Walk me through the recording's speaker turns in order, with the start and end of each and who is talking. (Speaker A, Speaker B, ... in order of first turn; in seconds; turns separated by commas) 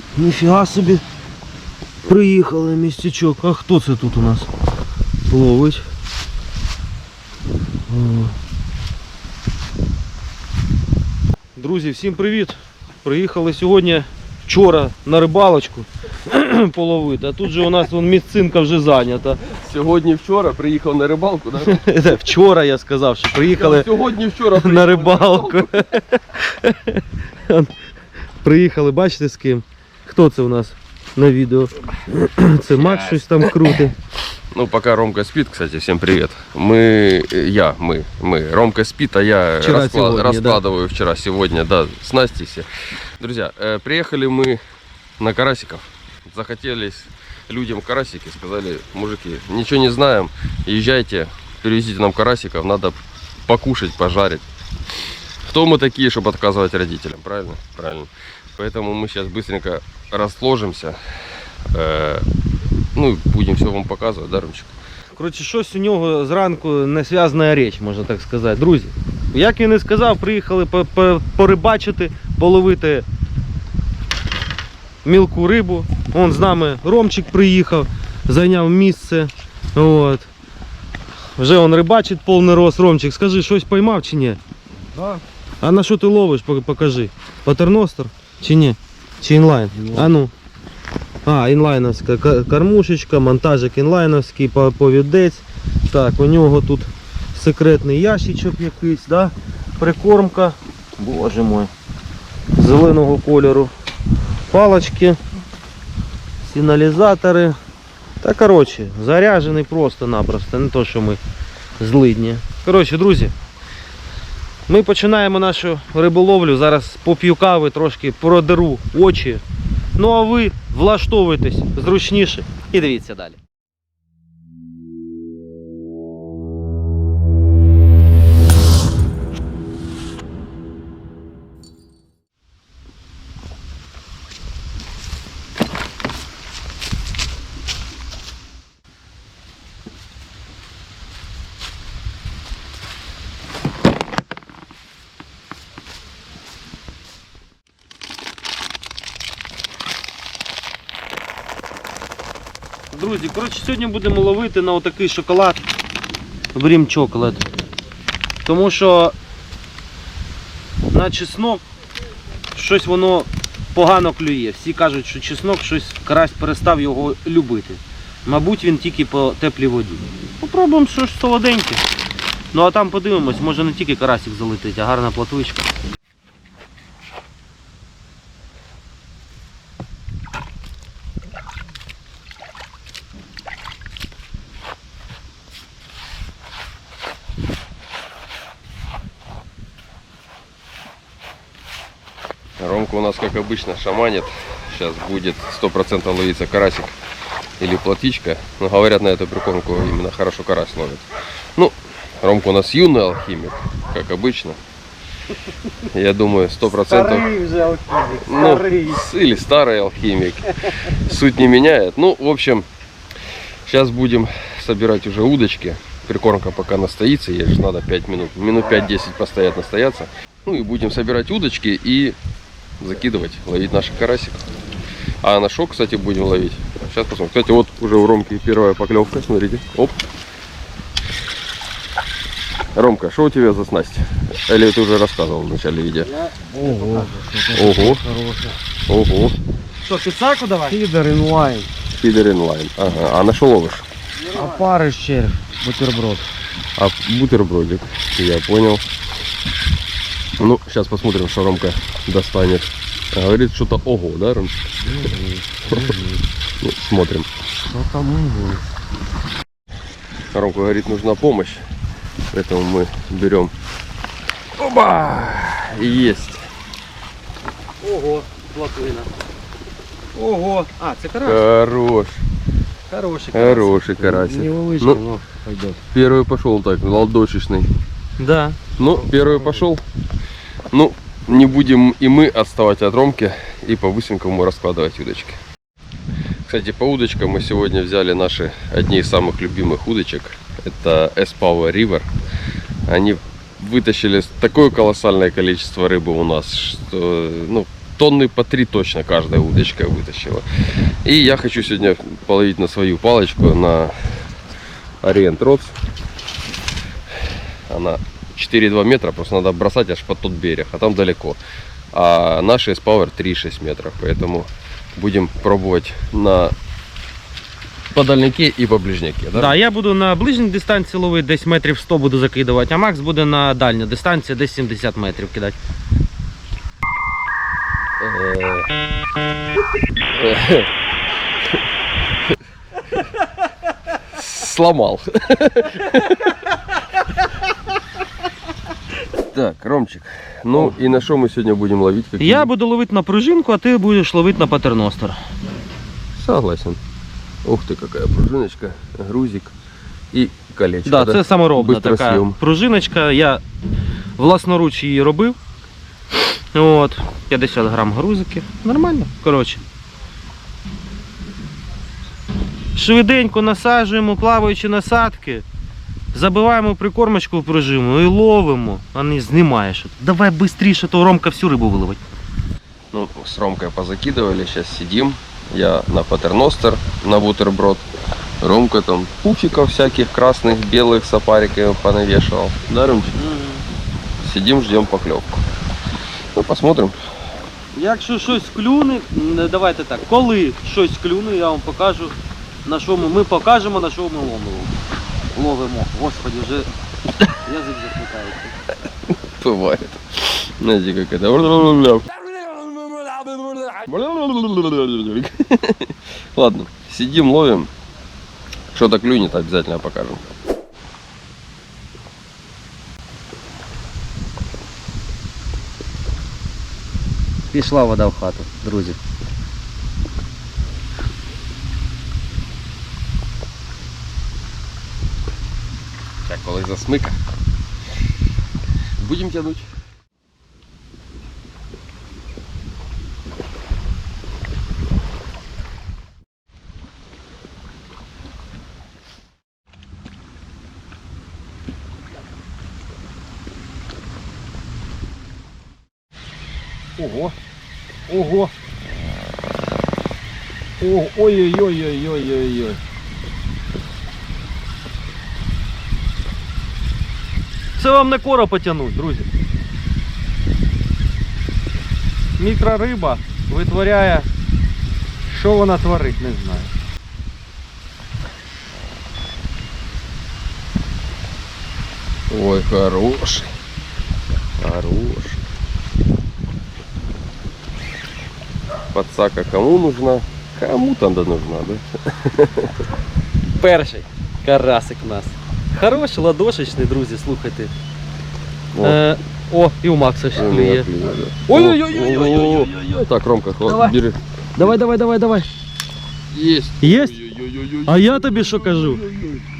Speaker A: 0.1-1.0, Speaker A: 2.0-4.5, Speaker A: 5.3-5.8, Speaker A: 7.9-8.3, Speaker A: 11.6-19.4, Speaker B: 19.5-21.9, Speaker A: 21.6-23.9, Speaker B: 23.4-26.0, Speaker A: 24.5-27.7, Speaker A: 28.4-33.9, Speaker B: 32.8-33.5, Speaker B: 34.5-44.6, Speaker A: 39.6-40.6, Speaker B: 45.2-54.5, Speaker B: 55.5-61.0, Speaker B: 61.7-62.2, Speaker B: 62.9-64.7, Speaker A: 65.2-73.0, Speaker A: 75.0-80.3, Speaker A: 81.4-84.4, Speaker C: 84.9-85.2, Speaker A: 85.6-90.3, Speaker C: 89.7-90.1, Speaker A: 91.2-101.7, Speaker A: 102.5-103.7, Speaker A: 104.5-105.2, Speaker A: 106.4-107.6, Speaker A: 108.2-111.2, Speaker A: 111.8-113.3, Speaker A: 114.7-119.4, Speaker A: 120.0-123.4, Speaker A: 152.9-155.6, Speaker A: 156.5-157.4, Speaker A: 158.4-159.1, Speaker A: 160.9-161.6, Speaker A: 162.5-171.8, Speaker A: 172.5-175.7, Speaker B: 192.6-197.0, Speaker B: 197.6-204.6, Speaker B: 205.9-207.3, Speaker A: 206.7-209.0, Speaker B: 208.2-212.7, Speaker B: 213.6-222.2, Speaker B: 222.8-224.5, Speaker B: 225.2-230.0, Speaker B: 232.7-236.1, Speaker A: 236.2-238.5, Speaker C: 236.5-238.0, Speaker B: 237.5-238.0, Speaker B: 238.9-239.4, Speaker A: 239.8-240.8, Speaker C: 240.7-241.7, Speaker B: 242.0-243.8, Speaker A: 244.2-246.2, Speaker C: 244.3-244.7, Speaker B: 246.8-248.8, Speaker B: 250.4-254.5, Speaker C: 254.8-256.1, Speaker B: 256.6-257.3, Speaker C: 257.7-258.6, Speaker A: 257.9-258.1, Speaker B: 260.3-261.6, Speaker B: 262.3-263.5, Speaker B: 264.6-266.5, Speaker A: 267.8-269.1, Speaker A: 270.1-271.4, Speaker B: 271.2-272.2, Speaker A: 272.9-273.8, Speaker B: 273.3-275.0, Speaker C: 274.0-275.8, Speaker B: 275.9-277.7, Speaker A: 278.2-278.6, Speaker B: 278.8-279.8, Speaker C: 279.2-279.6, Speaker B: 280.7-285.4, Speaker B: 286.4-292.1, Speaker B: 292.9-300.4, Speaker B: 301.0-303.9, Speaker B: 305.0-305.7, Speaker B: 307.7-311.4, Speaker B: 311.9-316.5, Speaker B: 317.9-319.6, Speaker A: 319.3-325.6, Speaker B: 328.0-328.7, Speaker B: 330.1-330.7, Speaker B: 334.1-336.4, Speaker B: 339.2-342.5, Speaker A: 342.2-345.2, Speaker B: 346.1-346.8, Speaker B: 347.4-349.5, Speaker B: 350.1-352.4, Speaker A: 350.8-353.4, Speaker A: 354.2-355.4, Speaker A: 356.5-359.6, Speaker A: 362.7-365.4, Speaker A: 366.1-372.0, Speaker B: 372.9-377.9, Speaker B: 378.4-383.1, Speaker A: 383.1-383.6, Speaker B: 384.2-385.4, Speaker B: 386.3-387.0, Speaker A: 387.7-394.7, Speaker A: 395.3-396.7, Speaker A: 397.4-398.5, Speaker B: 399.1-402.1, Speaker A: 402.3-403.6, Speaker B: 403.7-407.7, Speaker B: 408.7-410.2, Speaker A: 417.5-419.0, Speaker B: 426.2-427.2, Speaker B: 429.0-429.7, Speaker A: 447.0-447.3, Speaker A: 448.1-448.5, Speaker A: 450.8-452.8, Speaker A: 457.8-459.3, Speaker A: 462.4-464.3, Speaker A: 465.3-466.7, Speaker B: 472.3-473.5, Speaker B: 474.6-475.4, Speaker B: 478.9-482.7, Speaker A: 483.6-487.7, Speaker B: 488.7-489.0, Speaker A: 488.8-490.9, Speaker B: 490.3-494.8, Speaker A: 491.5-492.8, Speaker A: 493.6-493.9, Speaker A: 494.6-495.5, Speaker B: 496.3-499.4, Speaker A: 496.8-497.1, Speaker A: 497.9-499.0